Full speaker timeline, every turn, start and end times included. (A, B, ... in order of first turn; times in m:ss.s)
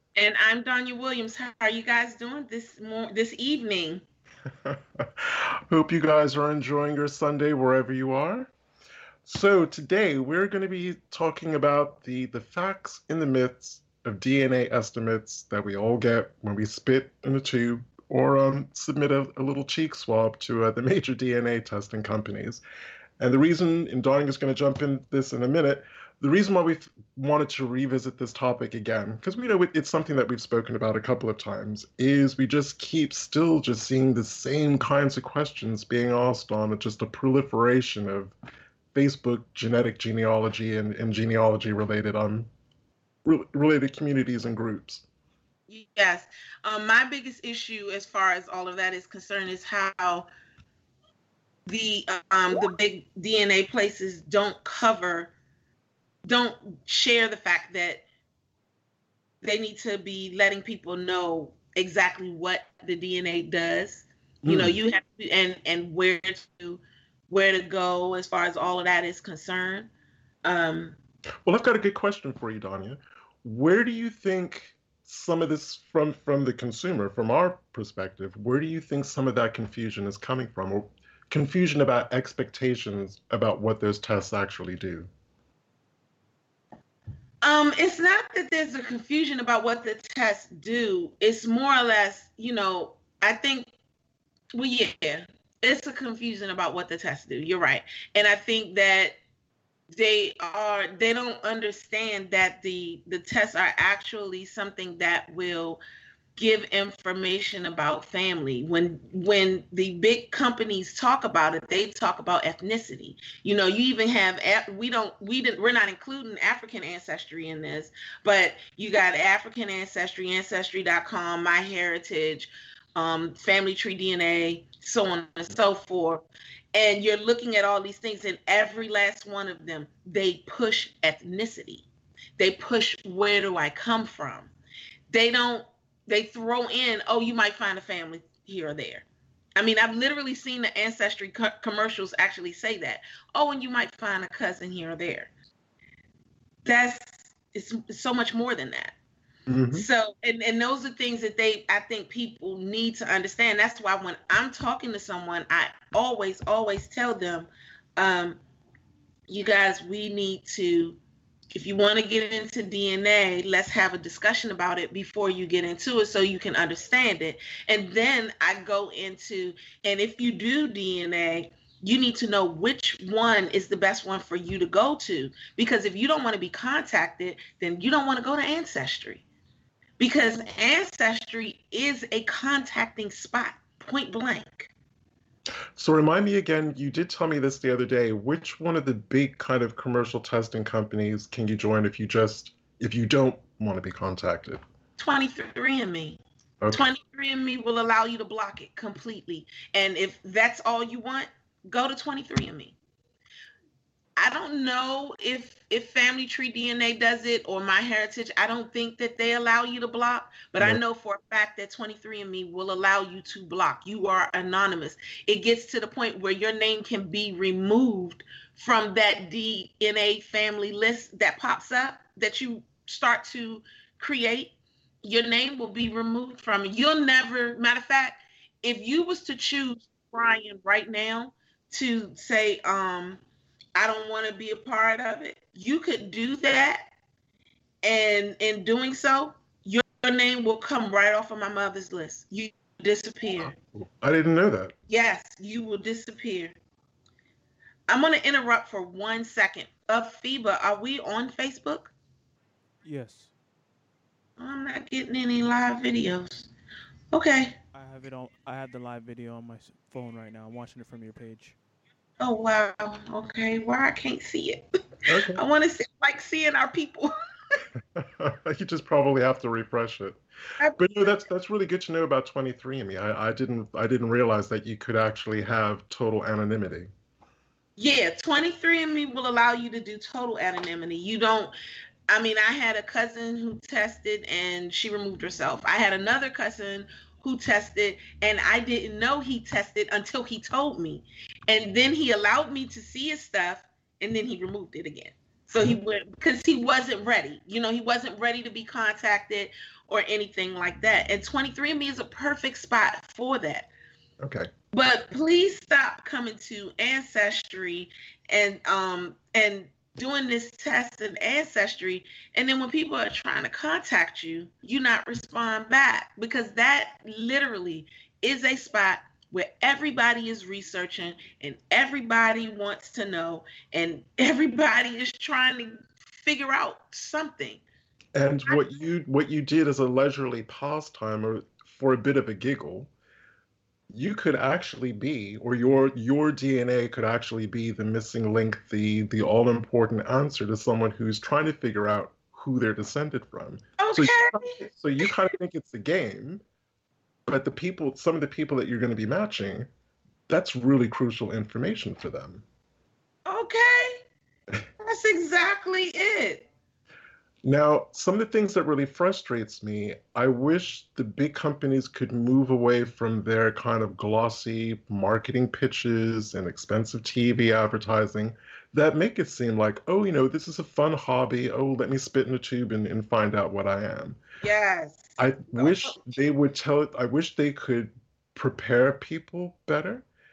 0:00.2-0:04.0 A
0:04.6-0:08.5 B
0:09.2-0:22.6 B
0:23.2-0:38.3 B
0:38.9-0:42.5 B
0:43.2-0:45.0 B
0:45.7-0:50.3 A
0:51.7-0:55.3 A
0:56.2-0:58.0 A
0:59.4-1:09.9 A
1:04.4-1:04.7 B
1:10.4-1:11.0 A
1:11.4-1:25.1 B
1:27.4-1:33.7 A
1:34.5-1:39.2 A
1:39.9-1:45.8 A
1:46.4-2:11.9 A
2:12.4-2:14.5 A
2:15.1-2:25.3 A
2:26.6-2:28.9 A
2:29.5-2:29.8 B
2:29.7-2:38.4 A
2:39.3-2:41.0 A
2:41.5-2:59.2 A
3:00.0-3:04.7 A
3:05.8-3:14.6 B
3:15.0-3:16.2 A
3:16.7-3:22.8 A
3:24.2-3:53.2 A
3:53.8-3:56.9 A
3:57.8-4:03.6 A
4:03.4-4:04.7 B
4:04.9-4:06.5 A
4:07.9-4:11.9 A
4:12.8-4:13.3 C
4:14.4-4:16.5 A
4:17.1-4:17.6 A
4:17.7-4:21.6 C
4:22.2-4:27.1 A
4:25.1-4:25.4 B
4:27.9-4:30.2 B
4:30.6-4:31.2 A
4:30.8-4:36.9 B
4:37.8-4:41.5 A
4:42.1-5:03.7 A
5:04.2-5:04.5 B
5:04.7-5:27.6 A
5:28.1-5:32.9 B
5:33.9-5:46.4 B
5:43.8-5:44.6 A
5:47.3-5:49.7 B
5:50.3-5:52.4 B
5:53.2-5:54.0 A
5:54.8-5:56.5 A
5:57.4-6:14.2 B
6:14.4-6:16.0 A
6:15.2-6:20.0 B